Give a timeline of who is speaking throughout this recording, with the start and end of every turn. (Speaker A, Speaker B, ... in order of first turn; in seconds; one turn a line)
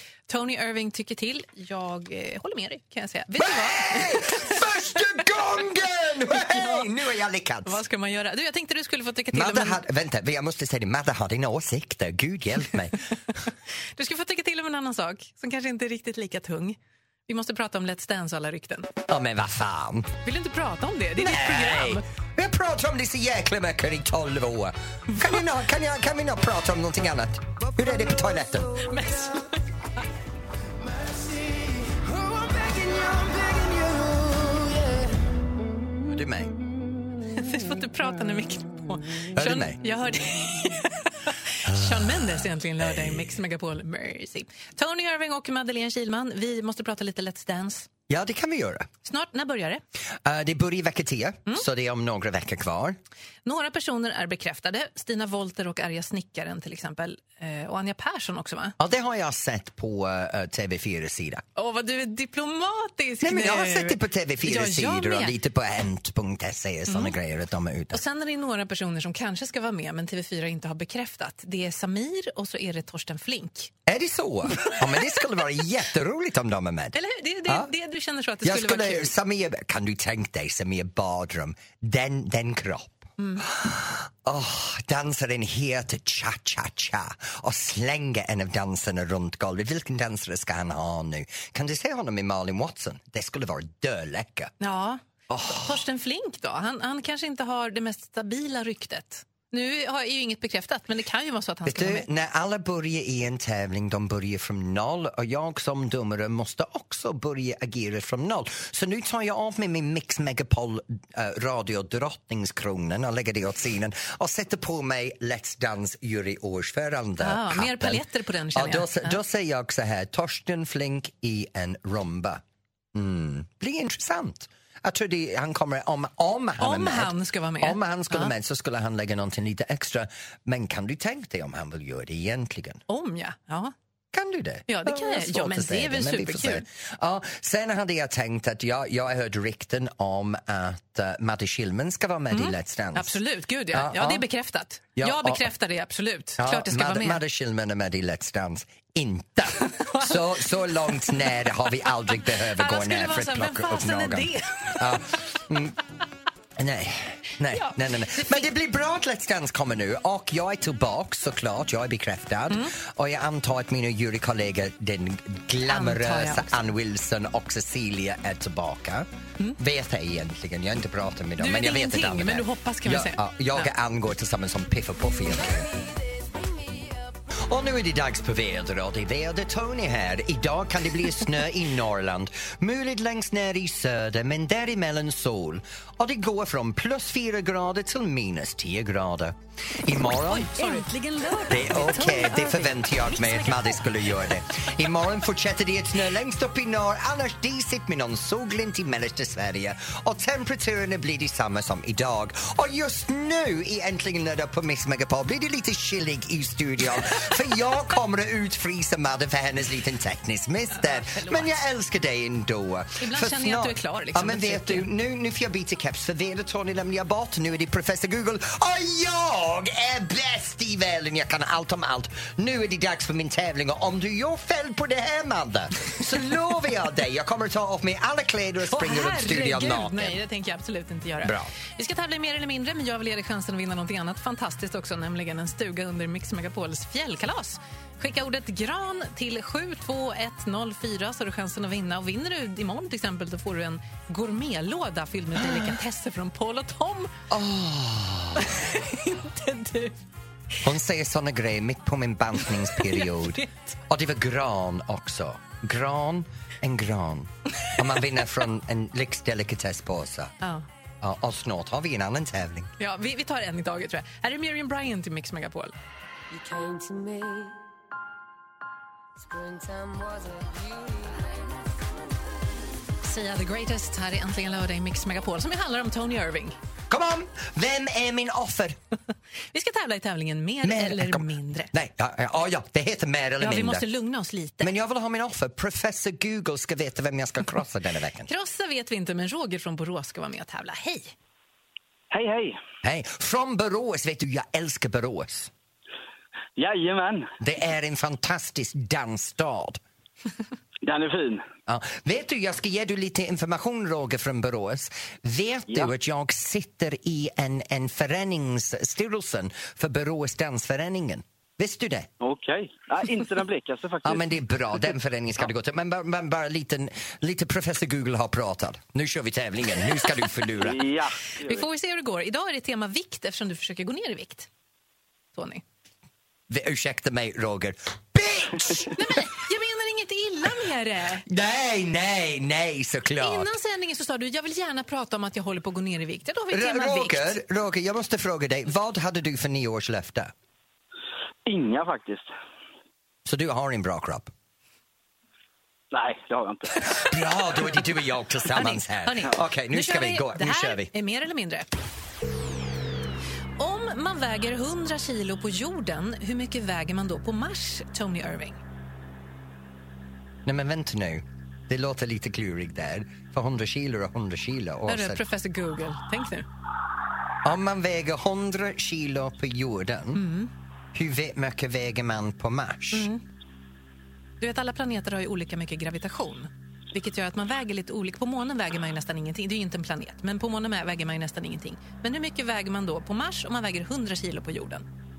Speaker A: 0.3-4.7
Speaker B: 3.4-7.8
Speaker A: 6.3-6.9
Speaker A: 7.7-9.8
Speaker B: 9.3-13.0
Speaker A: 13.9-18.9
Speaker B: 19.1-20.1
Speaker A: 20.2-22.0
Speaker B: 21.2-28.9
Speaker A: 28.8-29.6
Speaker C: 30.9-35.1
Speaker B: 36.0-36.6
Speaker A: 37.3-47.9
Speaker B: 39.3-39.8
Speaker B: 41.6-43.3
Speaker B: 48.1-48.9
Speaker A: 49.0-49.8
Speaker B: 50.2-53.0
Speaker A: 53.5-58.8
Speaker B: 58.8-61.4
Speaker A: 61.6-65.4
Speaker B: 63.2-68.0
Speaker A: 66.9-67.1
Speaker A: 67.9-73.7
Speaker B: 73.9-77.7
Speaker A: 76.9-79.1
Speaker B: 78.4-94.5
Speaker A: 83.2-83.5
Speaker A: 94.6-102.1
Speaker B: 95.3-95.8
Speaker B: 101.7-122.4
Speaker A: 117.2-119.2
Speaker B: 122.9-132.8
Speaker A: 126.6-128.3
Speaker A: 132.9-133.7
Speaker B: 134.1-143.2
Speaker A: 134.7-136.6
Speaker A: 142.3-147.2
Speaker B: 143.7-144.2
Speaker B: 145.0-145.5
Speaker B: 146.4-155.8
Speaker A: 149.7-151.3
Speaker A: 152.3-155.0
Speaker B: 156.6-175.7
Speaker A: 157.5-158.5
Speaker A: 165.7-166.7
Speaker A: 171.4-173.7
Speaker C: 176.5-176.8
Speaker B: 177.3-190.6
Speaker A: 190.3-190.9
Speaker D: 190.5-194.0
Speaker B: 191.5-230.2
Speaker A: 210.7-211.5
Speaker A: 213.0-214.9
Speaker A: 228.7-247.1
Speaker B: 231.2-231.5
Speaker B: 245.4-245.7
Speaker B: 247.3-248.6
Speaker A: 248.4-250.0
Speaker B: 250.6-260.4
Speaker A: 252.7-253.6
Speaker B: 261.0-262.7
Speaker A: 262.8-265.7
Speaker C: 266.3-267.6
Speaker C: 269.2-271.9
Speaker A: 273.0-276.6
Speaker B: 276.9-278.8
Speaker A: 279.5-281.7
Speaker B: 280.6-283.9
Speaker A: 283.4-284.7
Speaker B: 284.6-288.3
Speaker A: 288.3-291.1
Speaker E: 292.1-292.6
Speaker B: 292.8-295.5
Speaker E: 296.6-297.3
Speaker B: 297.4-299.8
Speaker E: 300.8-301.4
Speaker B: 301.7-312.1
Speaker E: 312.2-314.4
Speaker B: 314.0-320.8
Speaker E: 320.6-321.6
Speaker A: 321.4-324.5
Speaker A: 325.3-325.6
Speaker B: 326.5-329.2
Speaker A: 328.9-331.2
Speaker B: 331.3-333.5
Speaker A: 333.2-337.4
Speaker B: 336.5-340.3
Speaker E: 341.5-342.3
Speaker B: 343.2-344.3
Speaker E: 345.9-347.1
Speaker B: 346.9-350.9
Speaker A: 348.5-351.7
Speaker A: 353.6-358.6
Speaker B: 360.5-365.2
Speaker A: 364.9-366.5
Speaker B: 367.4-370.2
Speaker A: 370.1-370.5
Speaker B: 370.9-373.1
Speaker A: 372.9-373.2
Speaker A: 374.4-384.9